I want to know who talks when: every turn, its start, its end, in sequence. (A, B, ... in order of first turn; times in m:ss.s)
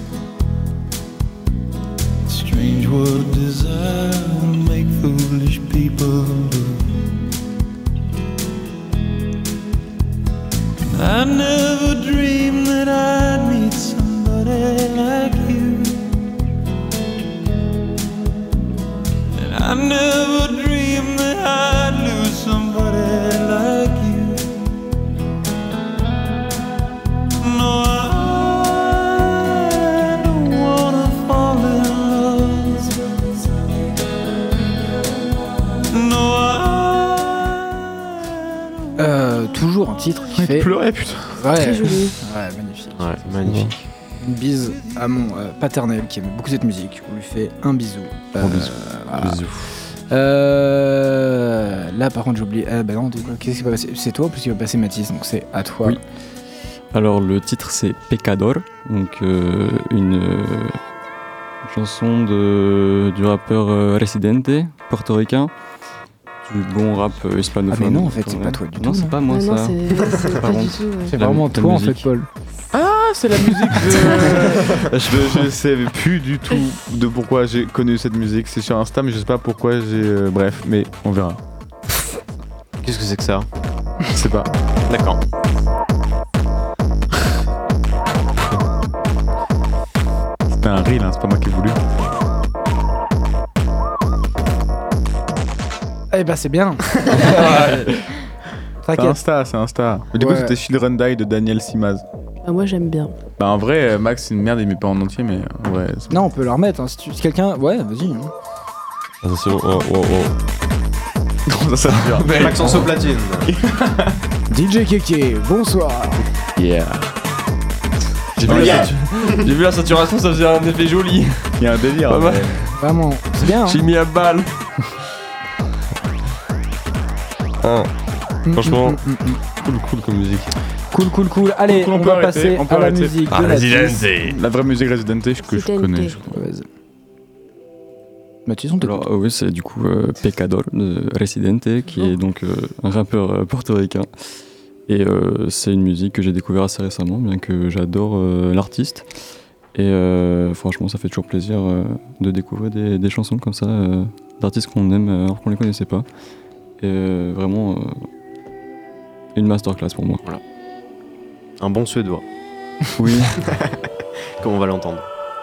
0:02.3-0:07.1 A
0:10.9-0:16.1 A
0:19.4-0:24.6 A
0:27.4-0:33.0 A
0:35.9-0:37.6 A
0:39.0-0:40.7 B
0:40.4-0:41.9 C
0:41.3-0:43.2 B
0:41.6-0:42.2 D
0:43.0-0:43.8 E
0:43.4-0:43.7 F
0:44.2-0:56.0 B
0:48.4-0:49.7 F
0:56.9-1:00.8 G
1:01.6-1:05.5 G
1:06.4-1:12.1 G
1:07.7-1:09.2 B
1:09.3-1:11.1 D
1:10.0-1:10.2 E
1:11.1-1:12.3 B
1:12.7-1:21.4 C
1:14.8-1:15.5 G
1:22.8-1:23.5 E
1:24.1-1:24.5 C
1:24.9-1:25.2 E
1:30.5-1:31.8 C
1:36.1-1:37.8 B
1:37.1-1:37.9 F
1:38.8-1:39.2 B
1:39.0-1:42.0 C
1:40.1-1:40.6 B
1:42.4-1:43.2 D
1:43.4-1:46.3 C
1:46.1-1:48.3 B
1:49.2-1:50.4 F
1:51.5-1:52.8 C
1:52.1-1:52.9 F
1:52.2-1:53.5 E
1:53.5-1:54.1 C
1:54.5-1:56.3 B
1:56.6-1:57.1 C
1:58.4-2:02.8 F
1:58.4-1:59.4 E
1:58.4-1:59.0 C
2:01.6-2:02.7 C
2:02.7-2:03.8 B
2:03.5-2:04.5 F
2:07.6-2:07.9 F
2:08.5-2:09.4 B
2:08.5-2:09.0 F
2:09.5-2:10.5 F
2:10.9-2:14.1 B
2:11.7-2:13.3 C
2:13.3-2:14.4 F
2:14.2-2:16.4 C
2:15.4-2:16.2 D
2:16.3-2:16.7 B
2:18.4-2:19.1 B
2:18.8-2:24.1 G
2:24.9-2:29.1 G
2:29.7-2:36.1 G
2:36.8-2:38.0 G
2:39.4-2:40.2 G
2:41.6-2:42.2 E
2:43.0-2:43.4 G
2:43.4-2:43.7 E
2:44.4-2:45.1 E